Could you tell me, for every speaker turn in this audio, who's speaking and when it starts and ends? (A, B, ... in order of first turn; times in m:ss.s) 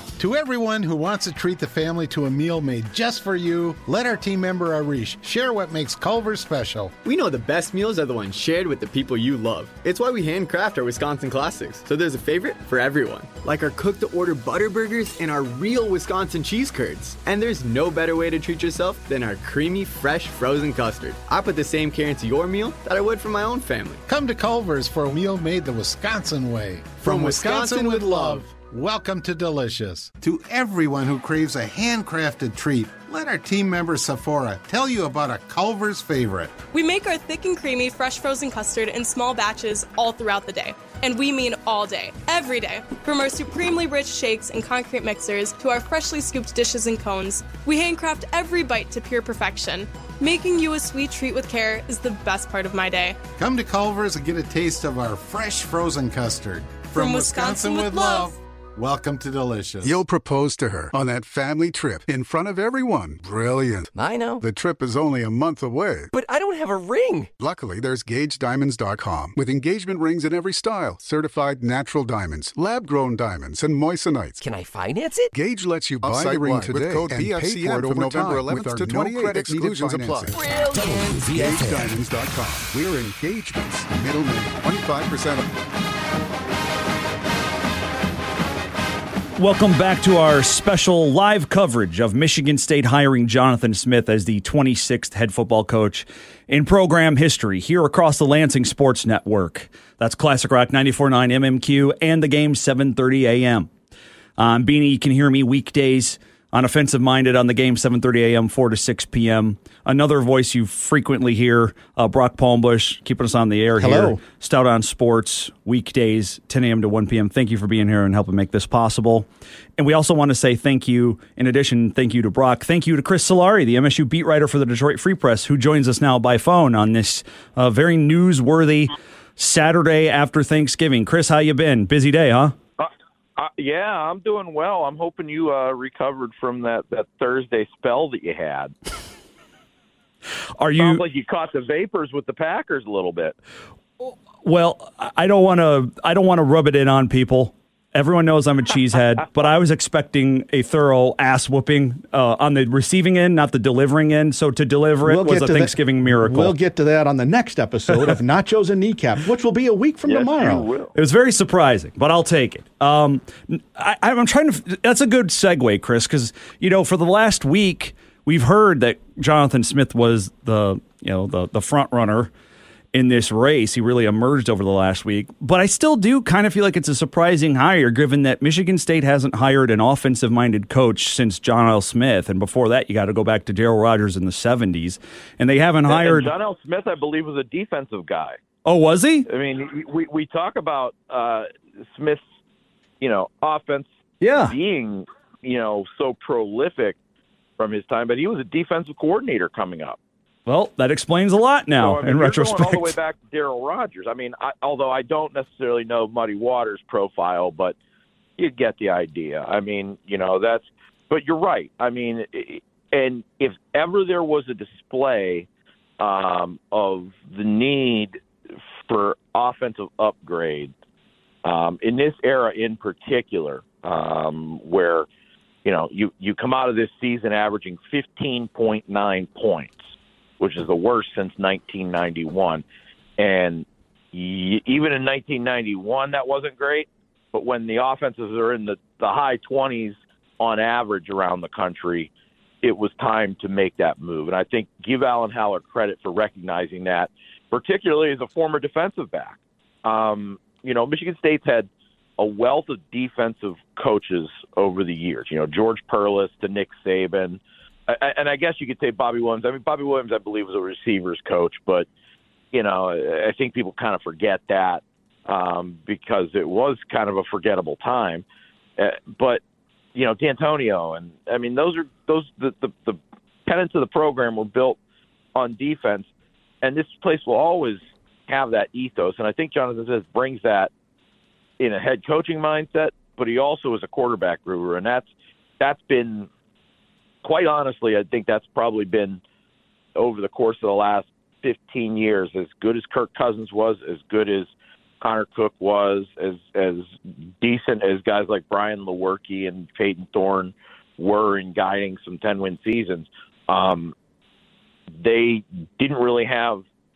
0:00.2-0:06.9 A
0:07.0-0:24.0 B
0:24.0-0:36.5 A
0:27.0-0:28.5 B
0:36.7-0:53.2 C
0:53.4-0:59.9 A
0:56.9-0:58.3 C
0:59.8-1:06.1 D
1:03.9-1:04.4 E
1:06.1-1:07.3 E
1:07.4-1:14.4 D
1:14.4-1:15.3 E
1:15.3-1:25.5 D
1:20.4-1:21.9 E
1:29.4-1:43.7 F
1:44.4-1:59.3 F
1:53.8-1:54.2 G
1:59.8-2:12.5 F
2:12.8-2:18.7 H
2:20.6-2:21.0 F
2:20.8-2:23.3 H
2:24.0-2:36.6 F
2:35.0-2:40.7 G
2:40.0-2:40.9 H
2:40.9-2:52.3 F
2:52.9-3:06.3 F
3:05.8-3:08.4 H
3:08.6-3:09.2 F
3:09.3-3:12.2 H
3:13.0-3:13.9 H
3:14.2-3:14.5 F
3:14.4-3:16.9 H
3:17.6-3:20.0 H
3:20.5-3:23.0 F
3:21.7-3:27.7 H
3:28.4-3:35.5 H
3:36.0-3:38.2 H
3:38.9-3:40.7 H
3:41.4-3:45.0 H
3:45.6-3:52.6 H
3:53.2-4:02.1 H
4:02.6-4:21.9 H
4:22.5-4:28.2 H
4:28.8-4:29.4 H
4:29.9-4:34.8 H
4:35.3-4:36.1 H
4:36.6-4:40.7 H
4:41.6-4:45.1 H
4:45.6-4:46.3 H
4:47.2-4:49.2 H
4:50.0-5:03.9 H
5:05.0-5:06.6 H